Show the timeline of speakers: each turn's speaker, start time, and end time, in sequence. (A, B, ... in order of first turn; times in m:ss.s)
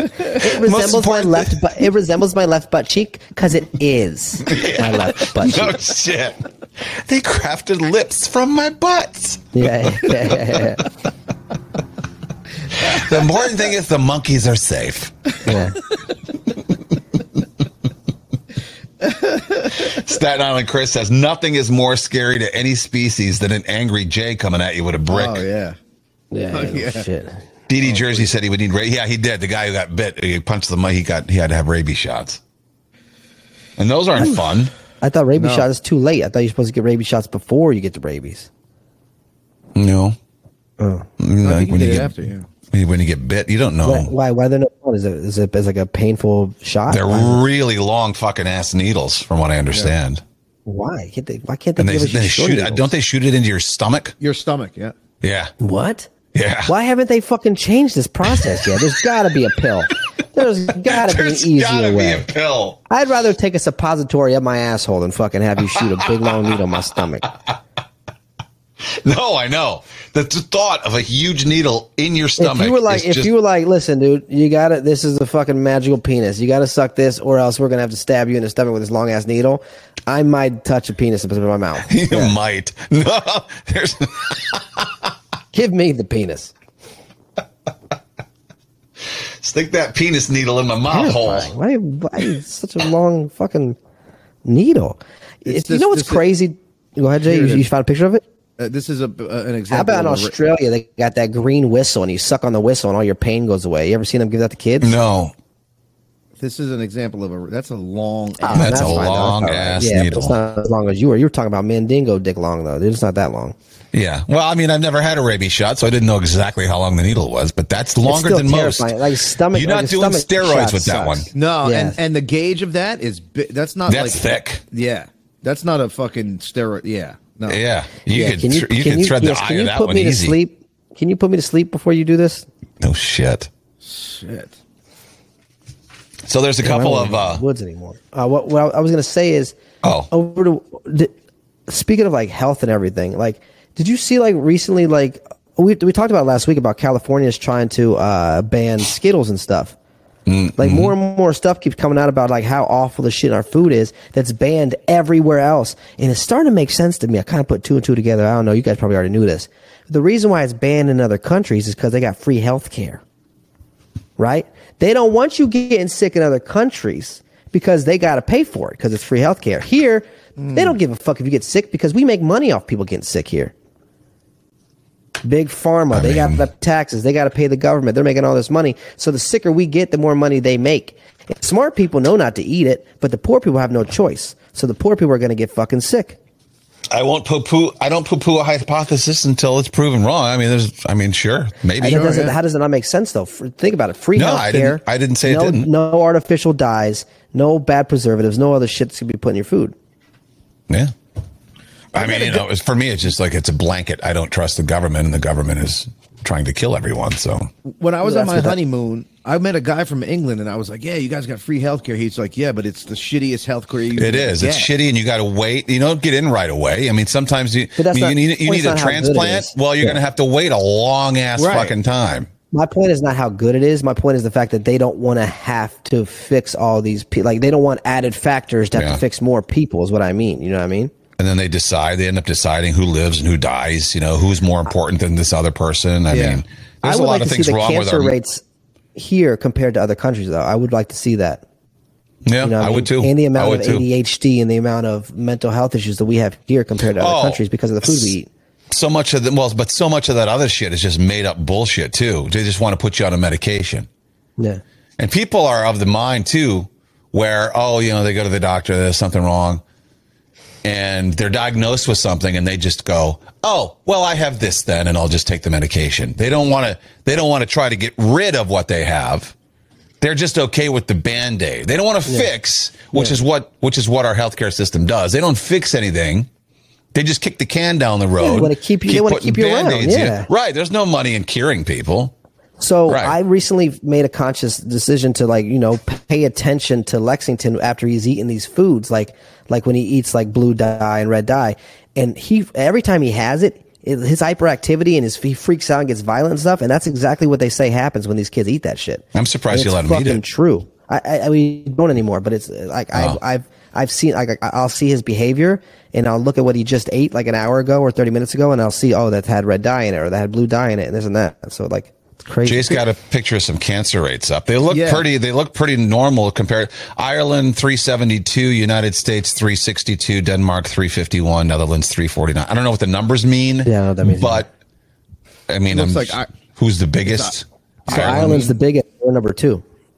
0:00.4-0:05.8 A
0:00.4-0:01.6 B
0:04.4-0:10.1 B
0:09.5-0:10.8 A
0:12.7-0:15.3 B
0:15.4-0:15.8 A
0:19.0-0:19.9 C
0:19.8-0:25.4 B
0:25.1-0:25.8 C
0:26.3-0:27.4 A
0:26.5-0:27.0 C
0:27.7-0:32.4 B
0:27.8-0:28.3 C
0:33.8-0:34.7 B
0:35.0-0:38.5 A
0:35.4-0:35.6 C
0:39.7-0:40.2 B
0:40.8-0:41.1 A
0:41.2-0:42.1 B
0:41.4-0:42.5 C
0:42.7-0:44.1 B
0:43.8-0:47.4 A
0:46.9-0:50.2 B
0:50.6-0:52.9 A
0:51.8-0:54.1 B
0:54.2-0:55.0 C
0:55.2-0:55.5 B
0:55.6-0:56.1 A
0:56.3-0:56.7 B
0:56.6-1:02.3 A
1:00.8-1:02.8 B
1:02.9-1:07.3 A
1:08.8-1:13.3 B
1:12.4-1:22.3 A
1:21.9-1:24.9 B
1:25.5-1:26.5 A
1:29.4-1:31.5 B
1:30.9-1:33.8 A
1:34.4-1:38.2 A
1:35.4-1:36.2 C
1:37.2-1:37.6 C
1:38.6-1:40.3 C
1:39.7-1:45.0 A
1:44.8-1:45.3 B
1:46.4-1:49.1 C
1:48.4-1:53.6 A
1:48.5-1:50.3 B
1:53.9-2:01.3 B
1:58.0-2:02.0 A
2:01.3-2:07.6 C
2:03.9-2:04.6 B
2:07.5-2:10.4 B
2:08.1-2:12.4 A
2:12.8-2:13.5 B
2:13.8-2:14.6 C
2:16.2-2:17.4 B
2:16.6-2:19.6 A
2:19.8-2:20.1 B
2:20.1-2:21.1 A
2:21.7-2:29.7 A
2:30.3-2:31.0 B
2:30.6-2:43.0 A
2:44.2-2:53.5 A
2:50.4-2:50.7 C
2:55.2-3:06.2 A
2:55.9-2:56.4 B
3:06.9-3:12.3 B
3:11.8-3:19.7 A
3:11.8-3:12.3 C
3:14.1-3:15.7 B
3:21.9-3:22.4 C
3:21.9-3:27.5 B
3:27.6-3:34.7 C
3:28.0-3:28.6 A
3:34.0-3:42.3 B
3:37.8-3:40.0 A
3:41.4-3:41.7 C
3:42.5-3:50.9 A
3:48.7-3:49.0 B
3:51.2-3:58.1 B
3:56.1-3:56.4 C
3:56.8-3:58.4 A
3:59.0-4:01.4 A
4:02.3-4:03.9 B
4:02.4-4:08.3 A
4:07.0-4:08.1 B
4:08.7-4:13.9 B
4:15.0-4:19.6 B
4:20.6-4:29.3 B
4:30.0-4:36.3 B
4:32.9-4:33.2 A
4:36.9-4:42.1 B
4:38.2-4:40.3 A
4:42.6-5:12.8 A
4:42.9-4:43.2 B
4:59.1-5:00.2 B
5:02.9-5:03.2 B
5:12.4-5:24.5 B
5:14.7-5:15.0 C
5:23.6-5:24.4 A
5:25.5-5:28.5 B
5:25.7-5:26.3 C
5:27.0-5:27.3 C
5:27.9-5:28.6 C
5:27.9-5:29.6 A